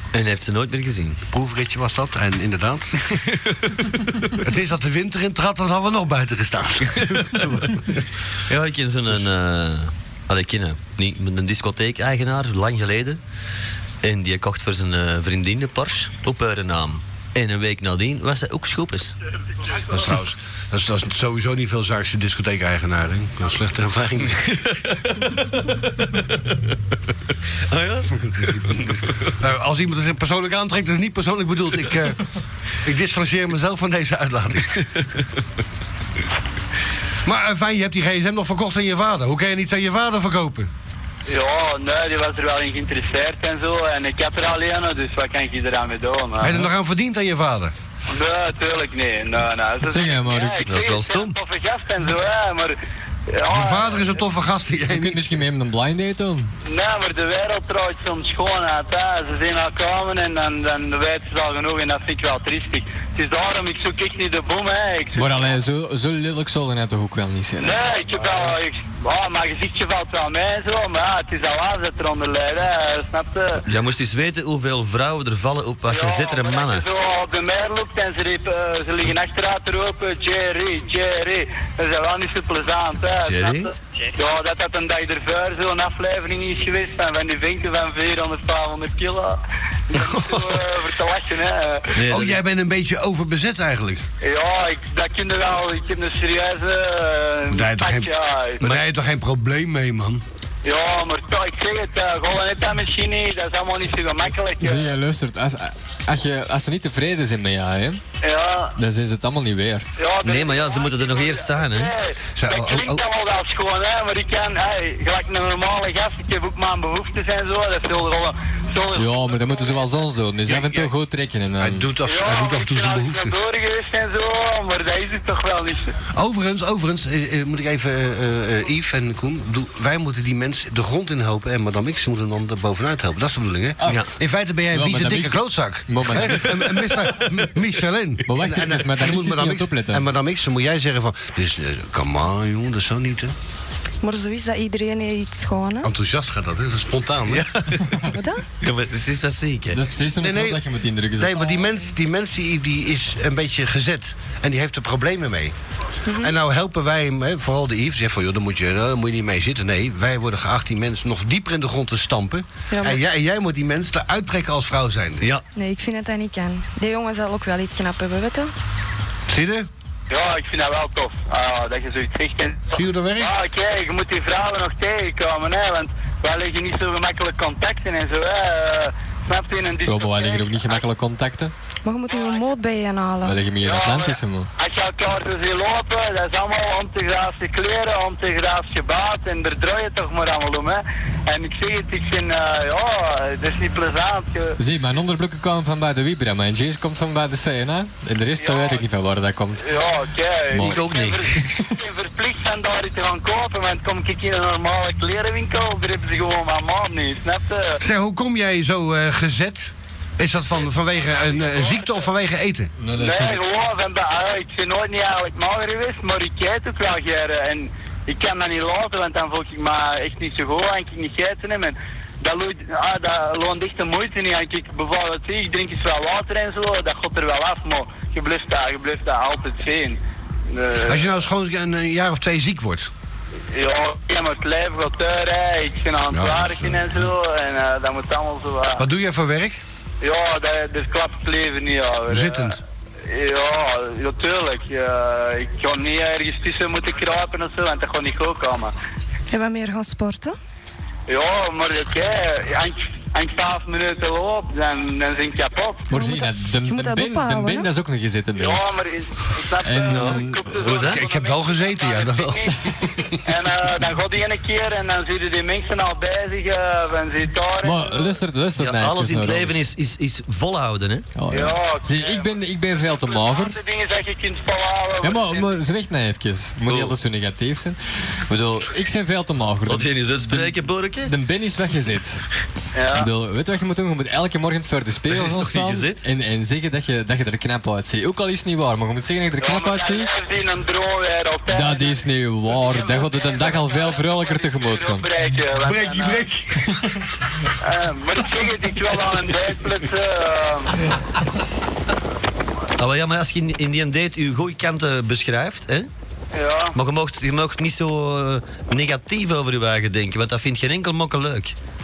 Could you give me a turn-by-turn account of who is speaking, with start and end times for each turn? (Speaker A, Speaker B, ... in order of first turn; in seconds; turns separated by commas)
Speaker A: 0.1-1.2, Speaker B: 1.3-3.1, Speaker A: 3.3-3.9, Speaker B: 4.4-8.0, Speaker A: 7.3-7.7, Speaker A: 8.5-13.2, Speaker A: 14.0-19.2, Speaker B: 19.8-24.5, Speaker A: 24.4-26.5, Speaker A: 27.7-29.3, Speaker B: 28.2-35.0, Speaker B: 37.2-40.7, Speaker C: 41.3-46.7, Speaker B: 46.4-47.7, Speaker C: 48.1-52.8, Speaker D: 49.9-50.7, Speaker A: 50.7-51.4, Speaker C: 53.3-54.2, Speaker B: 53.5-55.4, Speaker D: 54.9-56.5, Speaker C: 56.6-65.3, Speaker D: 65.2-68.1, Speaker C: 67.6-73.6, Speaker A: 73.7-76.8, Speaker C: 75.9-92.0, Speaker A: 83.2-83.7, Speaker A: 90.0-90.6, Speaker A: 92.0-92.4, Speaker B: 92.1-94.0, Speaker C: 94.2-98.7, Speaker B: 97.5-100.2, Speaker C: 100.6-104.9, Speaker D: 104.6-108.0, Speaker C: 108.2-108.7, Speaker D: 108.8-110.0, Speaker C: 110.0-119.7, Speaker A: 110.2-111.9, Speaker B: 112.3-113.0, Speaker D: 119.0-121.9, Speaker B: 120.5-120.9, Speaker B: 121.6-123.4, Speaker C: 122.1-125.9, Speaker B: 126.2-143.3, Speaker D: 134.7-137.3, Speaker D: 138.3-140.1, Speaker E: 144.0-145.9, Speaker B: 145.8-147.5, Speaker A: 147.3-148.1, Speaker E: 148.1-148.4, Speaker A: 148.6-149.8, Speaker D: 149.7-151.7, Speaker B: 150.2-150.6, Speaker B: 151.2-155.5, Speaker E: 156.1-156.3, Speaker B: 156.2-165.3, Speaker E: 162.7-163.0, Speaker E: 165.5-168.5, Speaker B: 169.3-169.7, Speaker C: 170.1-180.8, Speaker B: 172.7-173.3, Speaker D: 179.9-181.5, Speaker E: 181.8-183.4, Speaker C: 182.1-182.5, Speaker D: 183.2-184.5, Speaker C: 183.6-194.6, Speaker D: 194.6-199.7, Speaker C: 198.4-198.8, Speaker C: 199.6-207.8, Speaker D: 200.5-200.8, Speaker A: 200.5-201.5, Speaker B: 207.8-212.7, Speaker D: 212.8-213.4, Speaker C: 212.9-231.1, Speaker B: 230.8-232.9, Speaker C: 233.5-238.8, Speaker B: 236.1-237.0, Speaker B: 238.8-239.6, Speaker C: 240.0-248.7, Speaker B: 242.1-242.6, Speaker E: 249.3-250.4, Speaker C: 251.1-255.9, Speaker D: 255.9-258.8, Speaker E: 255.9-257.7, Speaker C: 258.4-262.6, Speaker D: 259.6-260.6, Speaker A: 259.9-261.0, Speaker B: 260.7-263.2, Speaker C: 263.2-268.2, Speaker D: 267.6-269.6, Speaker A: 268.6-271.1, Speaker D: 271.1-273.6, Speaker C: 271.3-275.6, Speaker D: 275.0-282.2, Speaker A: 276.7-277.0, Speaker A: 279.7-281.1, Speaker C: 282.7-283.1, Speaker D: 282.9-290.1, Speaker A: 285.1-286.1, Speaker C: 289.4-296.3, Speaker D: 291.5-295.1, Speaker B: 295.6-297.1, Speaker C: 297.6-300.9, Speaker A: 302.8-305.9, Speaker C: 306.3-306.8, Speaker A: 306.7-311.6